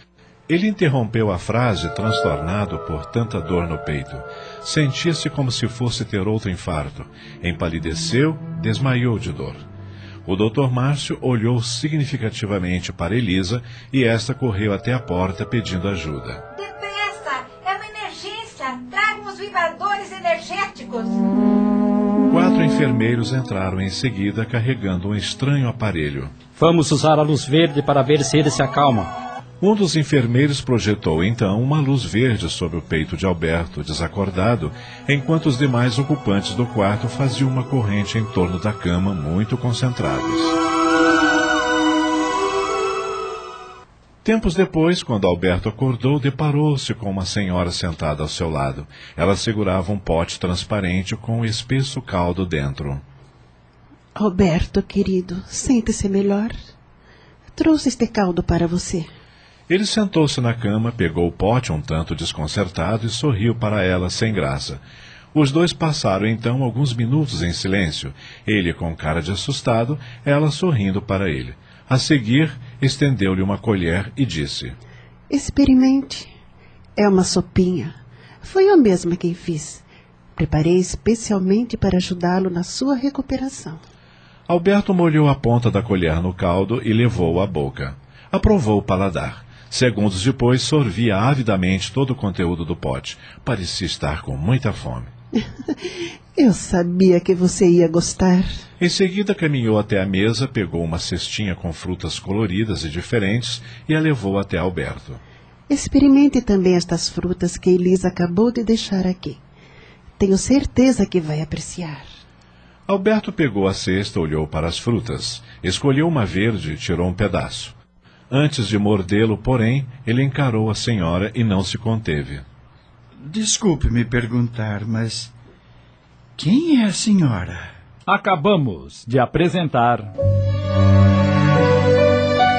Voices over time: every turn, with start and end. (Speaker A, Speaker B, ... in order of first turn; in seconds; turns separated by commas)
Speaker A: 0.5-9.6, Speaker A: 10.2-16.4, Speaker B: 16.5-21.2, Speaker A: 22.3-26.4, Speaker C: 26.5-29.1, Speaker A: 29.6-40.6, Speaker A: 44.2-53.0, Speaker D: 54.1-56.5, Speaker D: 57.5-59.1, Speaker A: 59.7-64.8, Speaker A: 65.3-74.8, Speaker D: 75.3-76.3, Speaker D: 77.0-79.8, Speaker D: 80.4-83.8, Speaker A: 84.5-95.1, Speaker D: 96.3-98.6, Speaker A: 98.8-105.2, Speaker D: 105.7-109.4, Speaker D: 110.2-112.0, Speaker A: 112.9-117.8, Speaker A: 118.3-122.4, Speaker E: 123.2-125.3, Speaker E: 126.4-127.6, Speaker F: 128.1-130.1